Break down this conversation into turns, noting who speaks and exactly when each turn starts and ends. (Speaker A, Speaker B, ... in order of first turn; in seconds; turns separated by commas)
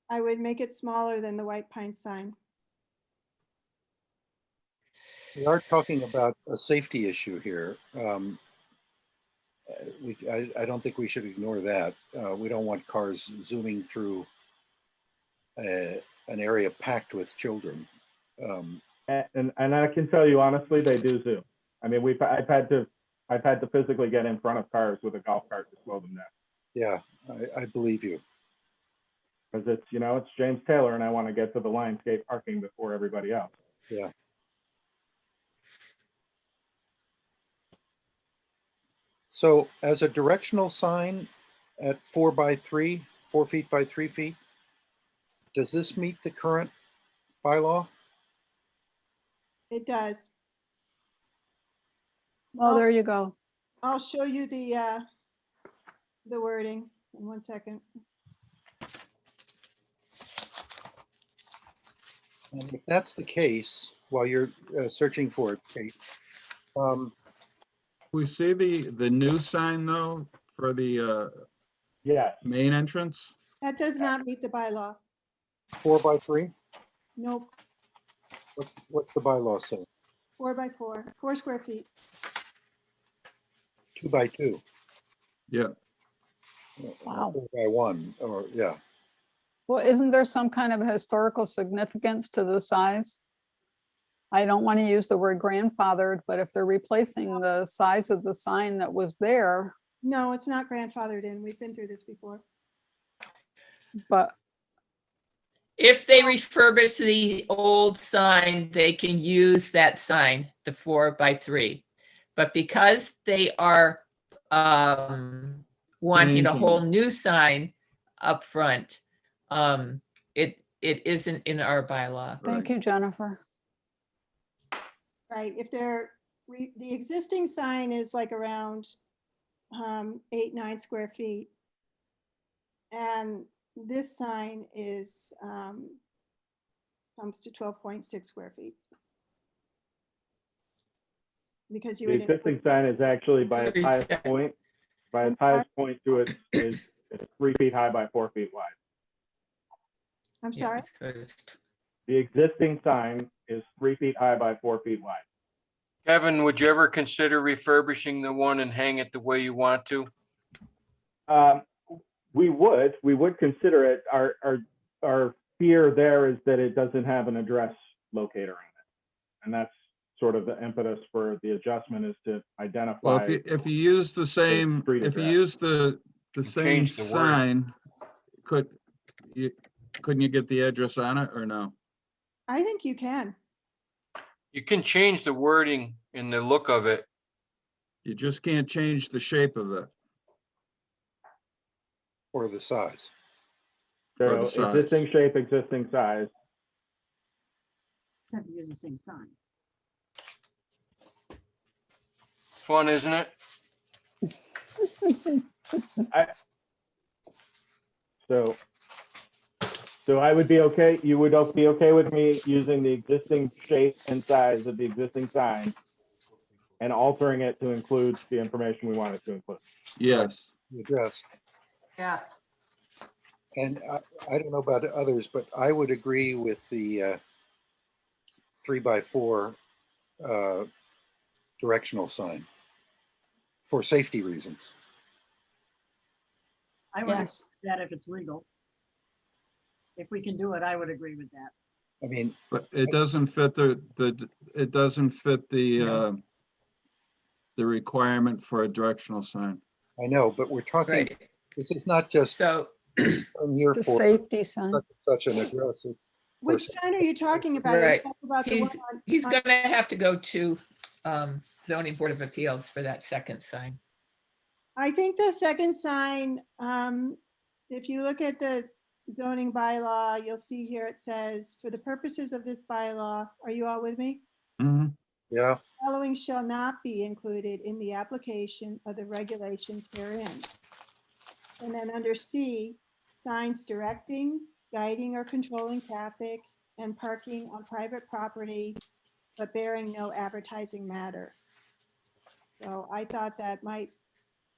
Speaker A: 0.1-2.3, Speaker B: 5.4-8.4, Speaker B: 9.7-14.3, Speaker B: 15.6-17.9, Speaker B: 18.4-18.8, Speaker C: 19.1-26.3, Speaker B: 26.8-28.2, Speaker C: 29.5-33.5, Speaker B: 39.3-44.4, Speaker B: 45.5-46.7, Speaker B: 47.4-47.9, Speaker A: 49.7-50.3, Speaker D: 52.6-53.4, Speaker A: 52.6-52.9, Speaker A: 53.8-55.0, Speaker A: 56.3-57.8, Speaker B: 62.5-65.9, Speaker B: 66.8-67.1, Speaker E: 68.1-71.4, Speaker C: 72.0-72.4, Speaker E: 72.4-73.3, Speaker A: 73.6-75.0, Speaker B: 75.8-76.5, Speaker A: 77.2-77.5, Speaker B: 78.6-79.9, Speaker A: 80.4-81.9, Speaker B: 84.0-84.6, Speaker B: 86.8-88.8, Speaker D: 87.1-87.4, Speaker D: 89.7-93.2, Speaker D: 94.3-99.8, Speaker A: 100.0-102.4, Speaker D: 104.1-104.3, Speaker F: 105.8-111.8, Speaker F: 112.4-122.6, Speaker E: 116.1-116.9, Speaker E: 122.4-122.7, Speaker D: 122.5-123.4, Speaker A: 125.3-128.9, Speaker A: 129.7-131.5, Speaker A: 132.9-136.0, Speaker A: 137.2-138.8, Speaker A: 141.7-142.6, Speaker C: 142.1-144.6, Speaker F: 143.5-144.3, Speaker C: 145.1-148.7, Speaker A: 145.2-145.7, Speaker A: 150.4-150.9, Speaker F: 150.6-151.6, Speaker C: 152.1-155.2, Speaker G: 156.1-160.1, Speaker C: 161.3-168.7, Speaker C: 169.4-173.4, Speaker E: 173.0-177.7, Speaker C: 174.5-175.4, Speaker G: 176.5-177.4, Speaker E: 178.4-178.8, Speaker E: 179.3-181.8, Speaker A: 182.5-183.4, Speaker G: 184.5-187.1, Speaker E: 188.0-189.9, Speaker B: 192.3-193.1, Speaker C: 194.2-196.3, Speaker E: 194.2-195.1, Speaker H: 198.3-199.3, Speaker G: 202.6-203.3, Speaker C: 208.2-208.6, Speaker C: 210.1-215.8, Speaker C: 216.8-219.6, Speaker E: 220.0-220.5, Speaker B: 220.1-221.2, Speaker B: 223.6-227.2, Speaker B: 228.7-229.6, Speaker B: 230.2-230.7, Speaker B: 231.6-232.5, Speaker B: 233.7-234.7, Speaker H: 236.9-238.4, Speaker D: 237.1-237.4, Speaker H: 240.0-241.5, Speaker B: 242.0-242.3, Speaker E: 242.5-246.2, Speaker F: 245.8-246.1, Speaker E: 247.6-249.6, Speaker B: 250.0-252.4, Speaker F: 250.9-251.2, Speaker F: 252.3-253.2, Speaker B: 253.0-254.1, Speaker D: 253.8-254.8, Speaker B: 254.7-256.8, Speaker A: 256.4-259.4, Speaker F: 257.6-263.8, Speaker A: 264.8-267.2, Speaker A: 267.7-274.2, Speaker E: 274.6-274.9, Speaker B: 275.3-275.6, Speaker A: 275.8-280.5, Speaker A: 281.6-288.8, Speaker A: 289.4-291.4, Speaker A: 292.6-293.9